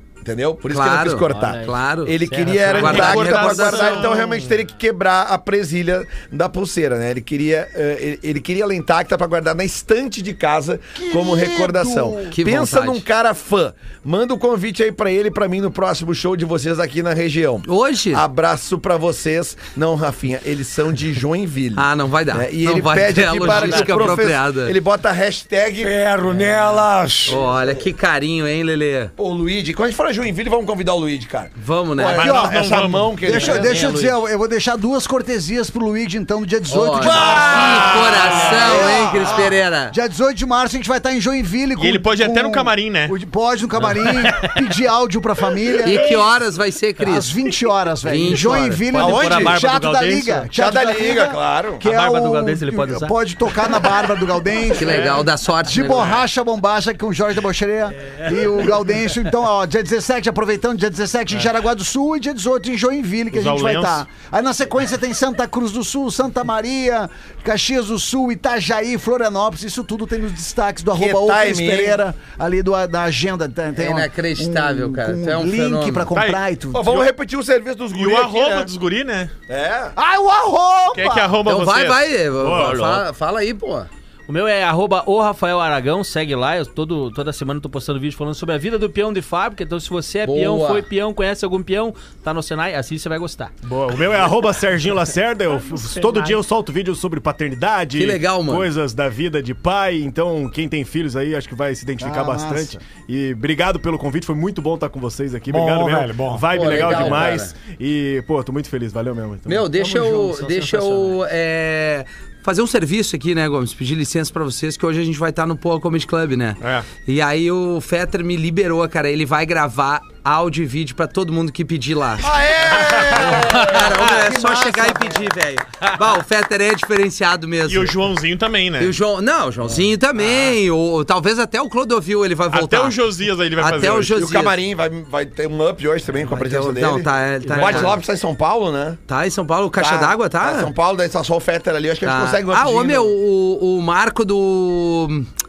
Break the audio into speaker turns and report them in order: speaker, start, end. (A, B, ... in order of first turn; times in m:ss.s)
0:00.2-0:25.9 A
0:00.7-0:04.0 B
0:01.2-0:03.2 C
0:02.7-0:04.2 D
0:11.0-0:12.3 E
0:12.3-0:13.0 B
0:17.6-0:18.2 B
0:21.7-0:24.7 B
0:25.8-0:27.4 F
0:27.3-0:29.1 B
0:29.2-0:33.8 A
0:31.6-0:32.3 B
0:32.1-0:33.2 D
0:32.2-0:32.6 E
0:33.2-0:46.2 E
0:33.3-0:34.2 C
0:36.7-0:39.9 B
0:41.8-0:43.1 D
0:44.2-0:44.6 C
0:45.8-0:47.3 B
0:47.1-1:17.0 E
0:48.1-0:49.0 B
0:48.1-0:50.5 C
0:49.0-0:49.6 A
0:50.5-0:51.8 A
0:51.8-0:53.2 C
0:54.7-0:56.2 B
0:54.9-0:55.2 D
1:03.3-1:04.0 D
1:10.9-1:12.0 A
1:13.7-1:16.1 B
1:16.1-1:17.1 D
1:16.7-1:18.7 A
1:17.9-1:19.3 D
1:19.5-1:20.0 A
1:20.0-1:21.3 E
1:20.9-1:22.8 D
1:21.4-1:23.9 B
1:22.5-1:23.0 C
1:24.3-1:33.5 C
1:30.2-1:30.9 B
1:33.6-1:49.7 G
1:37.9-1:38.7 B
1:42.0-1:42.8 E
1:45.5-1:47.0 F
1:46.5-1:47.5 B
1:49.4-2:08.0 B
1:49.7-1:50.6 E
1:50.5-1:51.2 C
1:56.6-1:56.9 D
2:02.2-2:03.6 A
2:02.4-2:03.2 E
2:03.9-2:05.3 E
2:07.7-2:08.9 D
2:08.8-2:13.0 B
2:12.5-2:14.2 D
2:13.6-2:14.5 B
2:14.0-2:19.0 A
2:16.3-2:18.0 B
2:17.4-2:18.0 C
2:19.1-2:20.7 B
2:19.8-2:23.1 A
2:22.0-2:25.3 B